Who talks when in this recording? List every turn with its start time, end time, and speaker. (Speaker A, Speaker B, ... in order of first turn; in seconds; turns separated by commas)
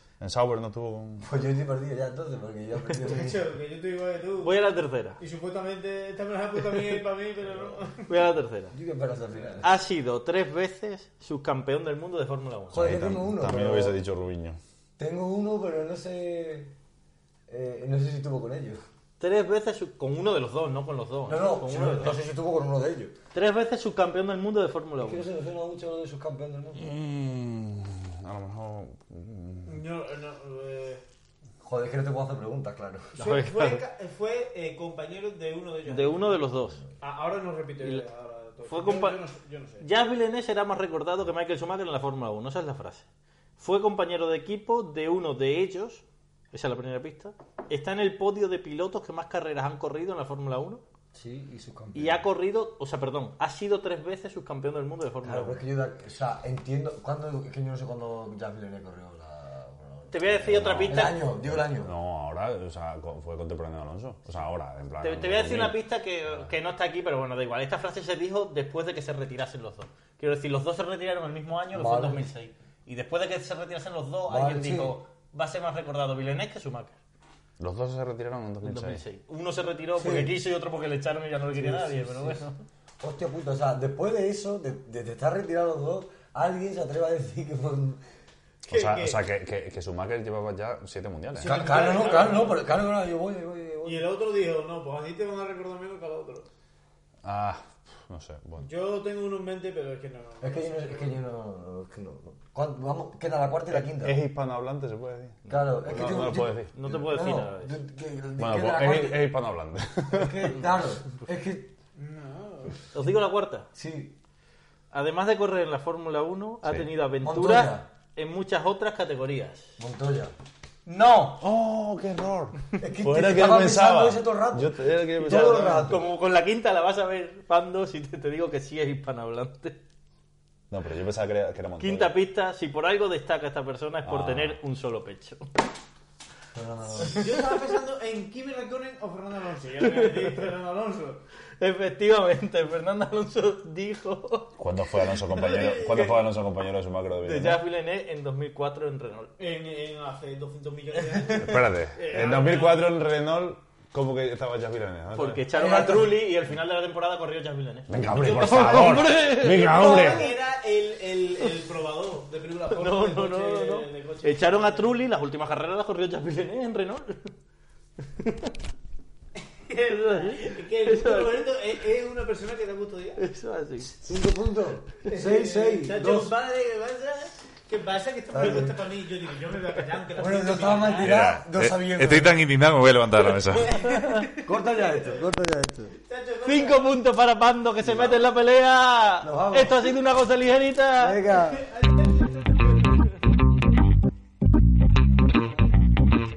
Speaker A: 0.2-1.3, Speaker B: 1.2-3.5, Speaker C: 3.0-4.5, Speaker D: 4.4-5.2, Speaker C: 5.2-8.2, Speaker D: 8.1-8.8, Speaker B: 8.7-9.7, Speaker D: 9.6-13.0, Speaker B: 12.7-14.0, Speaker A: 12.7-14.6, Speaker B: 15.0-16.7, Speaker B: 17.5-18.8, Speaker D: 19.2-22.2, Speaker B: 21.3-23.1, Speaker D: 23.3-25.3, Speaker B: 25.0-26.9, Speaker A: 26.8-29.8, Speaker C: 29.7-31.0, Speaker B: 31.6-33.2, Speaker C: 33.1-36.4, Speaker D: 33.2-33.8, Speaker D: 35.9-36.8, Speaker C: 37.0-39.9, Speaker D: 38.7-39.2, Speaker D: 39.8-43.1, Speaker D: 43.6-50.8, Speaker B: 51.1-52.3, Speaker D: 51.9-55.6, Speaker B: 55.2-60.2, Speaker D: 60.1-61.2, Speaker A: 60.3-65.8, Speaker B: 60.9-62.0, Speaker D: 65.0-77.0, Speaker B: 71.7-72.3, Speaker B: 74.3-75.0, Speaker A: 77.6-79.0, Speaker D: 78.6-82.6, Speaker B: 80.0-80.4, Speaker B: 81.5-82.4, Speaker B: 83.0-88.0, Speaker C: 88.7-89.2, Speaker A: 88.7-91.6, Speaker C: 91.4-92.6, Speaker B: 91.4-94.1, Speaker C: 93.8-96.5, Speaker A: 97.2-98.7, Speaker C: 98.6-101.2, Speaker B: 100.4-104.2, Speaker A: 103.7-106.7, Speaker B: 105.5-109.3, Speaker D: 105.5-107.8, Speaker A: 108.4-110.5, Speaker B: 110.1-111.7, Speaker C: 112.0-112.8, Speaker D: 112.9-113.7, Speaker B: 113.8-114.2, Speaker D: 114.9-119.7, Speaker B: 117.2-117.9, Speaker B: 119.8-120.3, Speaker D: 120.9-121.5, Speaker A: 121.4-126.0, Speaker B: 122.8-126.0, Speaker D: 125.2-129.8, Speaker A: 130.7-132.1, Speaker D: 131.8-135.6, Speaker A: 134.1-134.6, Speaker B: 136.5-137.3, Speaker C: 137.0-141.2, Speaker D: 139.9-140.3, Speaker D: 141.6-144.6, Speaker A: 144.6-147.6, Speaker C: 145.1-146.3, Speaker D: 147.2-149.3, Speaker C: 149.4-152.9, Speaker A: 151.3-155.5, Speaker D: 155.1-160.4, Speaker B: 155.5-156.3, Speaker A: 157.9-160.2, Speaker C: 159.6-165.0, Speaker D: 162.7-167.3, Speaker D: 168.0-168.5, Speaker C: 169.6-173.2, Speaker D: 169.9-171.5, Speaker D: 173.2-174.1, Speaker B: 174.0-176.3, Speaker C: 175.1-181.2, Speaker B: 178.3-178.8, Speaker B: 180.2-182.5, Speaker A: 181.0-183.7, Speaker C: 183.4-185.3, Speaker D: 183.4-184.3, Speaker B: 184.4-186.0, Speaker C: 186.0-186.8, Speaker D: 186.4-191.2, Speaker B: 187.8-188.2, Speaker B: 189.2-190.0, Speaker B: 191.0-191.7, Speaker C: 191.4-193.2